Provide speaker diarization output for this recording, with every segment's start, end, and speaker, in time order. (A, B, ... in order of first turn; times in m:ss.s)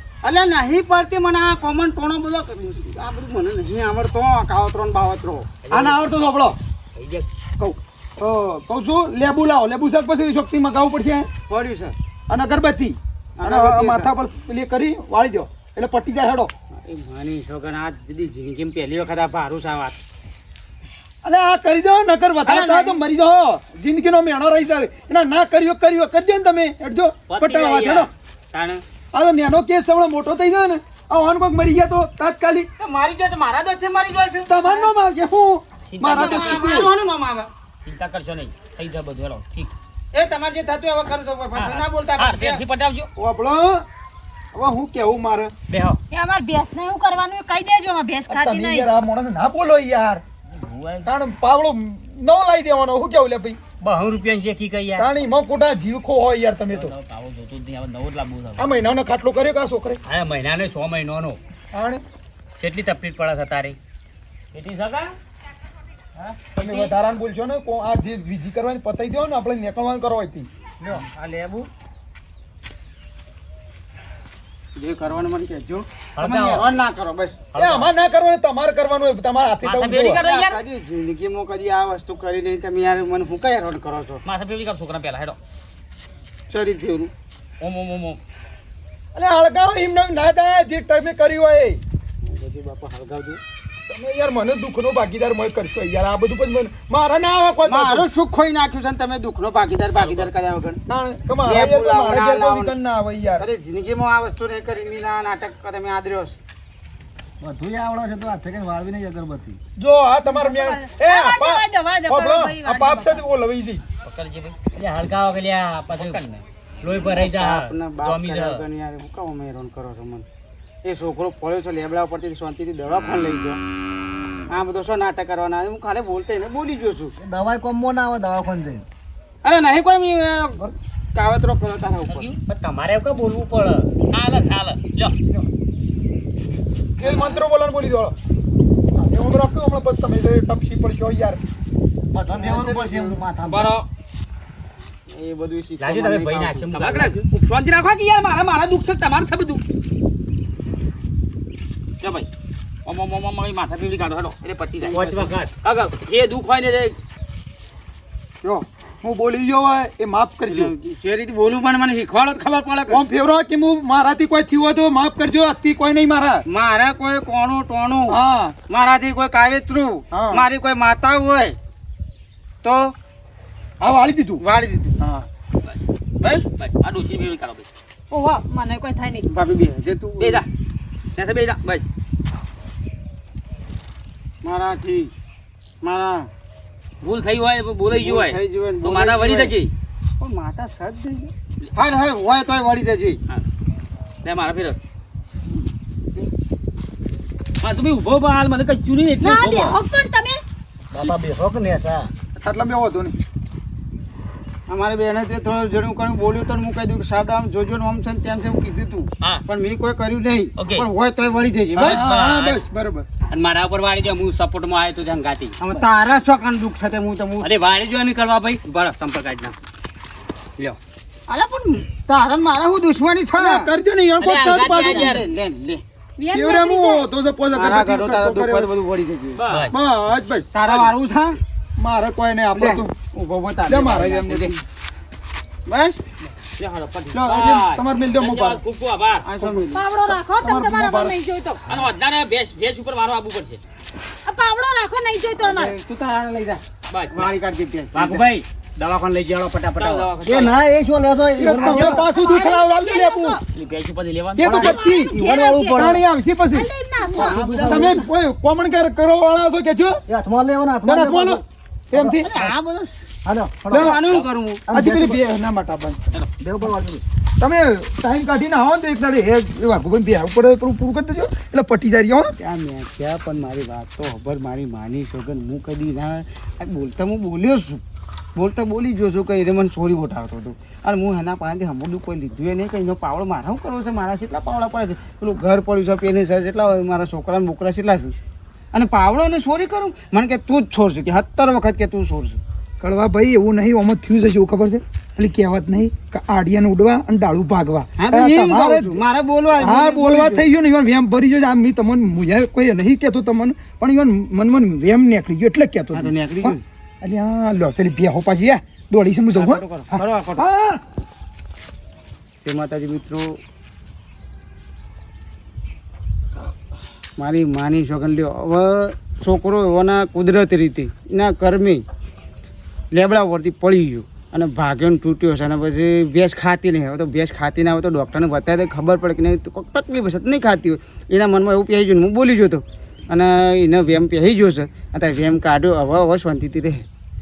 0:00.2-0:05.7 A
0:05.7-0:06.6 B
0:07.0-0:07.2 C
0:07.6-0:11.3 B
0:11.5-0:11.9 A
0:12.3-0:16.5 B
0:13.4-0:14.1 A
0:16.8-0:20.0 A
0:21.2-0:28.1 B
0:22.4-0:23.0 A
0:27.3-0:28.8 C
0:29.1-0:32.7 B
0:32.8-0:34.9 A
0:34.5-0:36.9 B
0:35.9-0:36.8 C
0:36.1-0:37.5 A
0:37.8-0:39.7 C
0:40.1-0:42.6 A
0:41.5-0:43.1 C
0:43.2-0:43.8 B
0:44.5-0:45.5 B
0:45.7-0:46.0 D
0:46.1-0:48.9 E
0:48.3-0:50.2 B
0:50.6-0:51.1 D
0:51.0-0:53.6 B
0:53.8-0:55.1 D
0:55.0-0:57.0 B
0:56.7-0:58.6 D
0:57.3-0:58.6 C
0:58.6-1:00.0 B
1:00.0-1:01.4 D
1:01.7-1:02.0 B
1:02.6-1:03.8 D
1:04.5-1:05.0 D
1:04.6-1:05.0 C
1:06.6-1:11.0 B
1:06.6-1:06.9 D
1:10.8-1:11.7 A
1:14.8-1:17.6 A
1:17.5-1:17.8 D
1:17.5-1:20.2 B
1:19.6-1:20.6 C
1:20.2-1:24.2 A
1:24.2-1:25.4 C
1:26.5-1:27.1 A
1:27.6-1:28.2 C
1:29.1-1:31.8 B
1:32.2-1:33.4 A
1:33.9-1:38.0 B
1:37.6-1:40.8 A
1:39.9-1:40.3 C
1:40.9-1:43.4 B
1:41.4-1:42.8 A
1:43.4-1:46.4 A
1:47.4-1:49.6 F
1:49.8-1:53.8 B
1:50.2-1:53.2 E
1:54.0-1:54.6 C
1:54.7-1:56.2 D
1:55.9-1:56.4 C
1:56.8-1:58.6 D
1:56.9-2:00.2 A
2:00.8-2:03.6 A
2:04.5-2:07.1 A
2:07.2-2:08.8 F
2:09.4-2:12.3 A
2:12.1-2:12.4 C
2:12.5-2:13.9 D
2:14.1-2:15.1 C
2:17.0-2:18.1 B
2:17.0-2:17.4 A
2:19.0-2:21.4 B
2:22.1-2:23.7 F
2:22.3-2:23.2 A
2:23.5-2:23.8 C
2:25.1-2:26.9 A
2:25.8-2:27.2 D
2:26.7-2:29.6 C
2:32.0-2:32.3 C
2:32.8-2:37.0 C
2:34.9-2:35.5 D
2:38.4-2:40.7 B
2:40.5-2:43.0 A
2:42.9-2:46.4 B
2:46.5-2:51.6 A
2:48.1-2:48.6 B
2:50.1-2:50.4 B
2:52.6-2:52.9 A
2:53.8-2:54.4 B
2:54.4-2:55.0 A
2:55.0-2:55.3 B
2:56.5-2:57.7 C
2:58.1-2:59.3 E
2:59.3-3:00.4 A
3:00.2-3:00.4 C
3:01.2-3:01.9 C
3:04.4-3:05.1 A
3:05.8-3:06.3 A
3:07.0-3:09.7 C
3:07.9-3:09.6 A
3:10.2-3:13.2 A
3:14.2-3:14.8 C
3:17.6-3:19.8 C
3:19.2-3:20.4 E
3:20.9-3:22.1 F
3:22.4-3:23.2 B
3:24.7-3:32.0 A
3:30.6-3:30.8 C
3:31.8-3:33.1 B
3:31.8-3:32.6 D
3:33.3-3:35.6 D
3:35.6-3:37.5 A
3:37.4-3:39.5 D
3:41.3-3:43.7 A
3:43.4-3:45.2 B
3:44.2-3:45.2 D
3:44.5-3:45.8 A
3:46.2-3:47.1 E
3:46.3-3:48.7 B
3:47.5-3:49.6 A
3:49.4-3:49.8 C
3:49.7-3:50.5 B
3:50.5-3:51.4 A
3:50.6-3:50.9 C
3:51.8-3:52.9 B
3:52.5-3:54.6 A
3:53.6-3:54.5 B
3:55.7-3:56.0 A
3:56.4-3:59.6 C
3:57.1-3:58.6 B
3:59.2-3:59.8 A
3:59.7-4:01.6 E
4:00.1-4:01.2 B
4:01.7-4:03.6 C
4:04.2-4:05.7 E
4:05.4-4:08.2 A
4:06.9-4:07.3 C
4:08.0-4:10.1 D
4:09.8-4:10.5 C
4:10.2-4:12.1 F
4:11.4-4:13.4 B
4:11.4-4:13.4 E
4:13.5-4:14.6 C
4:14.4-4:15.2 B
4:14.4-4:16.0 F
4:14.5-4:16.0 E
4:15.7-4:20.0 B
4:16.5-4:17.4 E
4:17.1-4:18.1 F
4:17.2-4:18.1 A
4:20.1-4:22.5 F
4:20.8-4:22.2 B
4:22.2-4:22.9 A
4:23.2-4:24.0 F
4:23.7-4:24.0 B
4:23.7-4:25.2 A
4:24.7-4:26.0 B
4:24.7-4:25.0 F
4:26.4-4:27.0 F
4:27.4-4:32.3 B
4:32.4-4:37.8 A
4:38.4-4:48.1 A
4:48.7-4:52.4 A
4:52.8-4:59.0 B
4:58.0-5:00.5 A
4:59.6-5:10.8 B
5:05.9-5:06.6 A
5:09.3-5:10.4 A
5:12.4-5:13.4 A
5:17.2-5:21.8 A
5:22.9-5:36.8 A